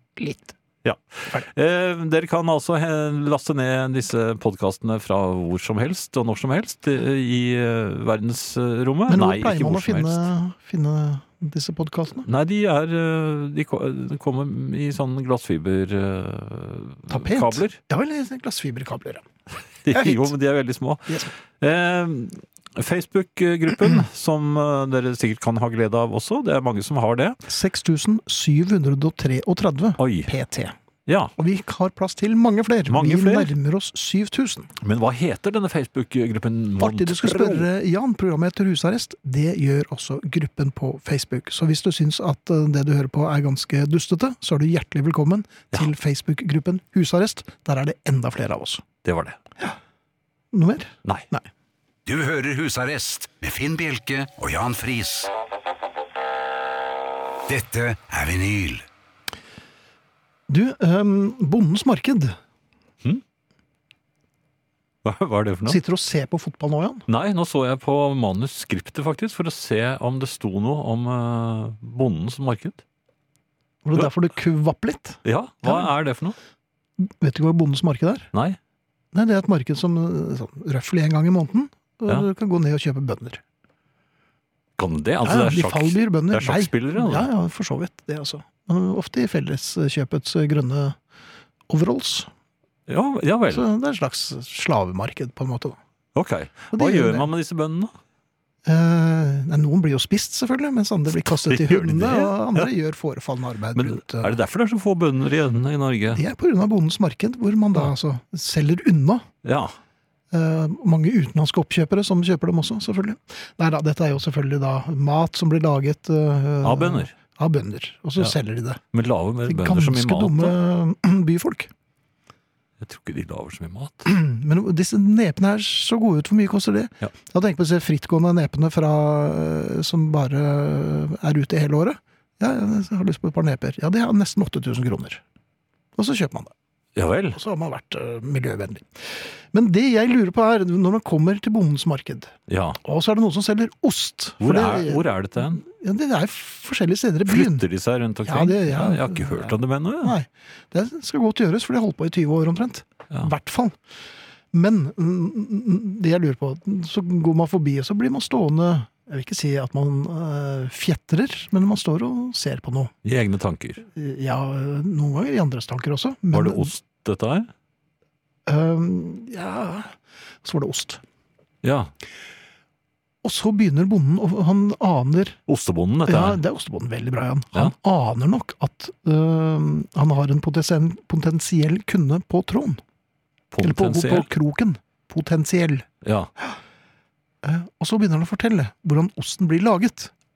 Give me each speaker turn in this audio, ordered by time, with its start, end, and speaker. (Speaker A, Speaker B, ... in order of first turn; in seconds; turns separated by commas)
Speaker A: 0.2-0.5, Speaker B: 0.8-10.3, Speaker A: 9.1-12.3, Speaker B: 12.2-17.8, Speaker A: 17.1-19.2, Speaker B: 19.8-27.4, Speaker A: 19.9-20.3, Speaker A: 27.5-30.7, Speaker B: 30.0-30.3, Speaker B: 31.1-31.3, Speaker A: 31.4-34.7, Speaker B: 32.9-33.5, Speaker B: 34.8-37.7, Speaker A: 36.8-48.8, Speaker B: 49.0-49.4, Speaker A: 50.5-51.5, Speaker C: 52.0-55.3, Speaker C: 57.5-58.8, Speaker A: 60.5-62.4, Speaker B: 65.0-65.8, Speaker A: 65.6-67.1, Speaker B: 67.1-72.8, Speaker A: 73.8-75.9, Speaker B: 75.2-76.3, Speaker A: 77.0-78.3, Speaker B: 78.3-78.6, Speaker A: 79.1-83.4, Speaker B: 84.8-87.3, Speaker A: 85.2-91.0, Speaker A: 91.7-92.3, Speaker B: 92.9-93.6, Speaker A: 93.5-95.8, Speaker B: 96.1-97.9, Speaker A: 96.7-97.3, Speaker A: 98.6-104.3, Speaker B: 101.2-102.7, Speaker B: 103.7-106.2, Speaker A: 106.1-109.2, Speaker B: 109.4-109.7, Speaker A: 110.3-118.8, Speaker B: 116.6-117.1, Speaker B: 118.9-120.6, Speaker A: 119.5-121.7, Speaker B: 122.8-124.1, Speaker A: 124.0-135.2, Speaker A: 135.9-136.5, Speaker B: 136.9-137.4, Speaker A: 137.3-147.6, Speaker B: 142.5-142.8, Speaker B: 144.4-145.6, Speaker B: 147.3-150.1, Speaker A: 148.2-153.8, Speaker A: 154.5-162.9, Speaker B: 163.0-163.8, Speaker A: 163.9-166.7, Speaker B: 166.3-167.5, Speaker A: 168.5-171.0, Speaker B: 171.6-171.9, Speaker A: 173.2-175.4, Speaker B: 175.5-176.4, Speaker A: 176.1-182.8, Speaker B: 183.5-184.3, Speaker A: 183.6-185.9, Speaker B: 186.0-186.3, Speaker A: 187.4-190.1